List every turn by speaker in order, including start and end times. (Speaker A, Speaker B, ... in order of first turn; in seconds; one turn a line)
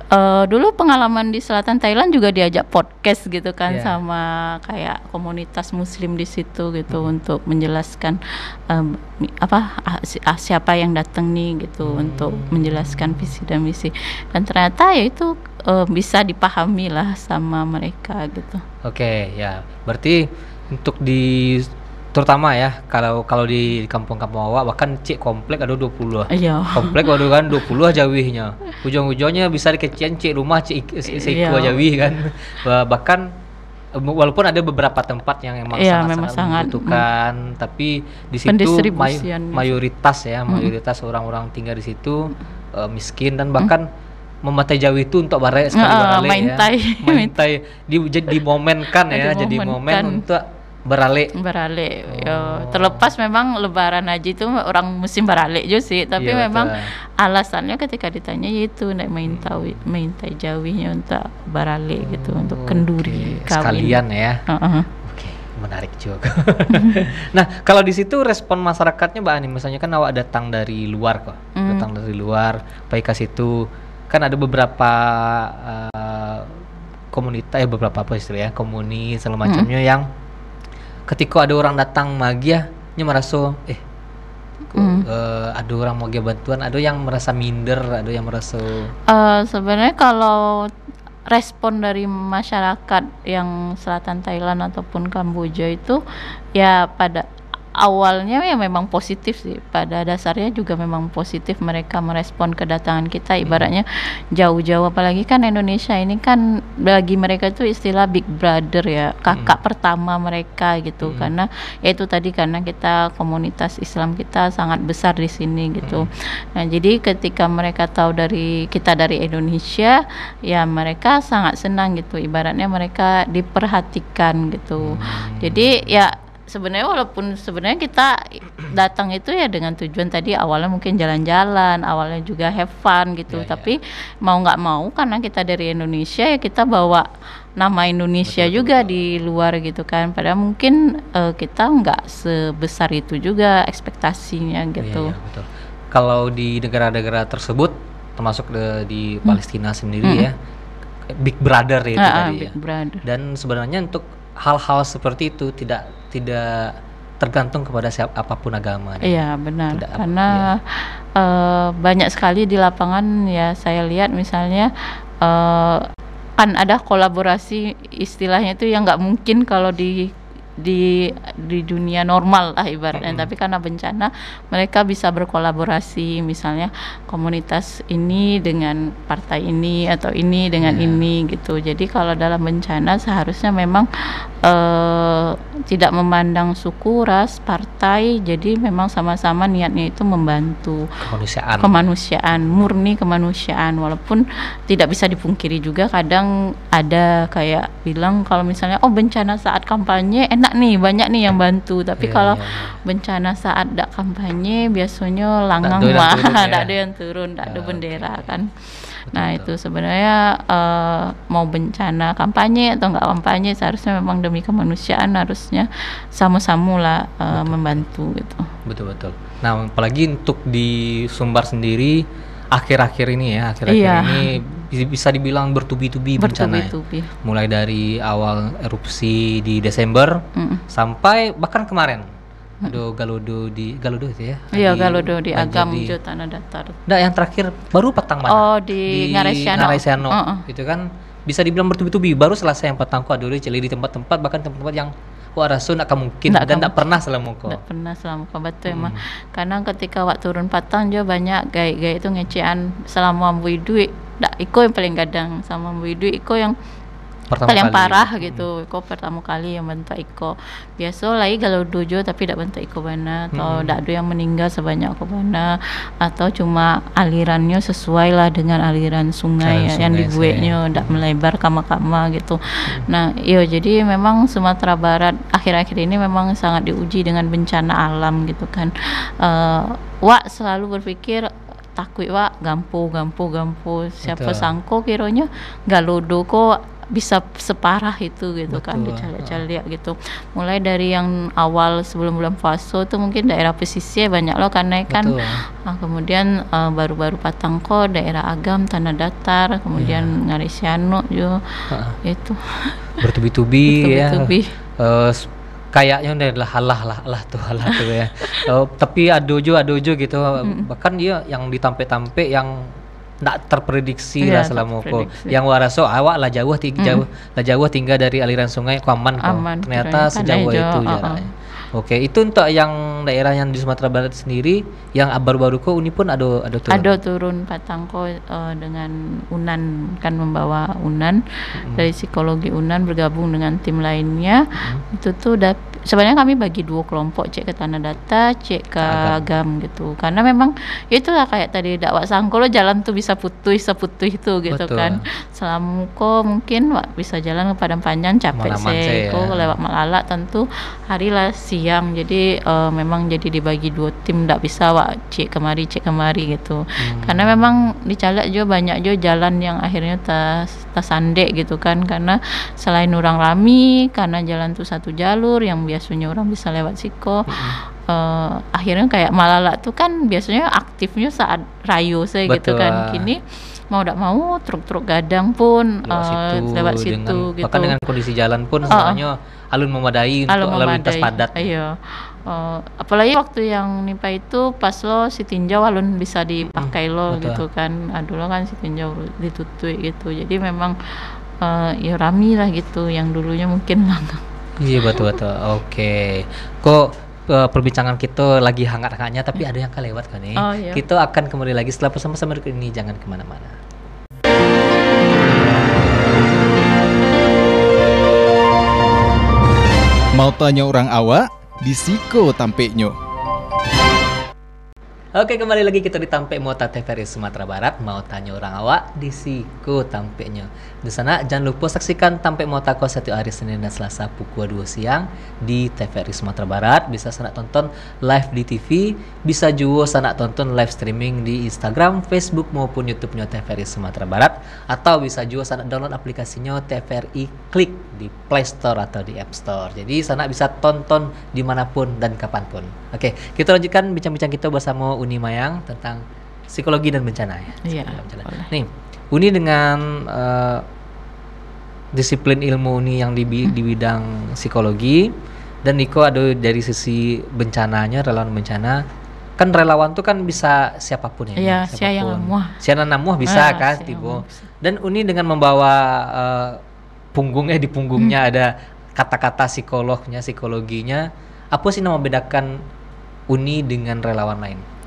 Speaker A: 0.1-18.6
Speaker B: 3.7-4.0
Speaker B: 11.8-13.3
Speaker B: 18.8-33.3
Speaker A: 26.3-27.1
Speaker A: 31.1-31.8
Speaker B: 33.9-43.9
Speaker A: 35.7-37.0
Speaker A: 38.5-39.8
Speaker B: 44.5-51.3
Speaker A: 45.7-47.4
Speaker A: 49.1-50.2
Speaker A: 51.4-64.9
Speaker B: 52.1-53.1
Speaker B: 56.2-56.9
Speaker B: 59.3-59.8
Speaker B: 62.0-64.4
Speaker B: 65.0-76.6
Speaker A: 66.7-67.0
Speaker A: 71.5-71.9
Speaker B: 77.1-80.1
Speaker B: 81.1-83.8
Speaker B: 84.7-88.9
Speaker A: 84.7-85.0
Speaker A: 89.1-90.7
Speaker A: 91.3-96.0
Speaker A: 96.5-137.1
Speaker B: 109.3-109.6
Speaker B: 111.0-111.3
Speaker B: 115.8-116.1
Speaker B: 124.8-125.9
Speaker B: 133.3-133.7
Speaker A: 137.6-145.1
Speaker B: 138.2-139.0
Speaker B: 144.8-150.3
Speaker B: 151.1-159.2
Speaker A: 152.0-153.0
Speaker A: 159.0-164.7
Speaker B: 159.7-160.5
Speaker A: 165.2-165.8
Speaker A: 166.4-183.9
Speaker B: 172.9-173.3
Speaker B: 180.6-181.0
Speaker A: 184.4-190.9
Speaker B: 191.0-191.9
Speaker A: 191.6-218.5
Speaker B: 192.4-192.7
Speaker B: 202.0-202.8
Speaker B: 205.6-206.7
Speaker B: 207.4-208.3
Speaker B: 209.1-209.5
Speaker B: 217.3-217.8
Speaker B: 218.7-222.0
Speaker B: 222.5-232.1
Speaker A: 223.7-224.3
Speaker A: 226.2-227.1
Speaker A: 230.4-230.6
Speaker B: 232.7-235.9
Speaker A: 234.5-236.8
Speaker B: 236.9-247.6
Speaker A: 238.3-240.4
Speaker A: 246.3-246.9
Speaker A: 247.5-256.6
Speaker B: 248.7-249.0
Speaker B: 257.3-258.5
Speaker A: 257.5-301.4
Speaker B: 263.3-263.8
Speaker B: 269.4-271.0
Speaker B: 284.1-284.5
Speaker B: 288.5-289.4
Speaker B: 294.9-295.4
Speaker B: 299.8-300.1
Speaker B: 301.7-302.0
Speaker A: 302.0-302.9
Speaker B: 303.0-312.7
Speaker A: 303.7-304.5
Speaker A: 307.7-308.5
Speaker A: 310.4-310.6
Speaker B: 313.2-326.9
Speaker A: 314.2-315.4
Speaker A: 316.8-317.0
Speaker A: 319.2-321.3
Speaker A: 326.7-367.4
Speaker B: 331.6-331.9
Speaker B: 334.6-334.8
Speaker B: 338.8-339.3
Speaker B: 344.5-345.0
Speaker B: 348.3-349.6
Speaker B: 356.8-357.5
Speaker B: 367.3-367.6
Speaker A: 367.9-377.8
Speaker B: 372.3-373.1
Speaker B: 375.9-381.5
Speaker A: 378.7-379.0
Speaker A: 380.3-390.8
Speaker B: 386.4-387.4
Speaker A: 391.4-394.2
Speaker B: 394.6-403.6
Speaker A: 400.4-400.8
Speaker C: 410.2-413.0
Speaker B: 415.2-450.6
Speaker A: 447.6-448.5
Speaker B: 451.9-455.1
Speaker B: 455.6-458.8
Speaker B: 459.4-466.6
Speaker A: 461.4-462.6
Speaker A: 463.2-464.5
Speaker B: 467.1-472.6
Speaker B: 473.3-474.6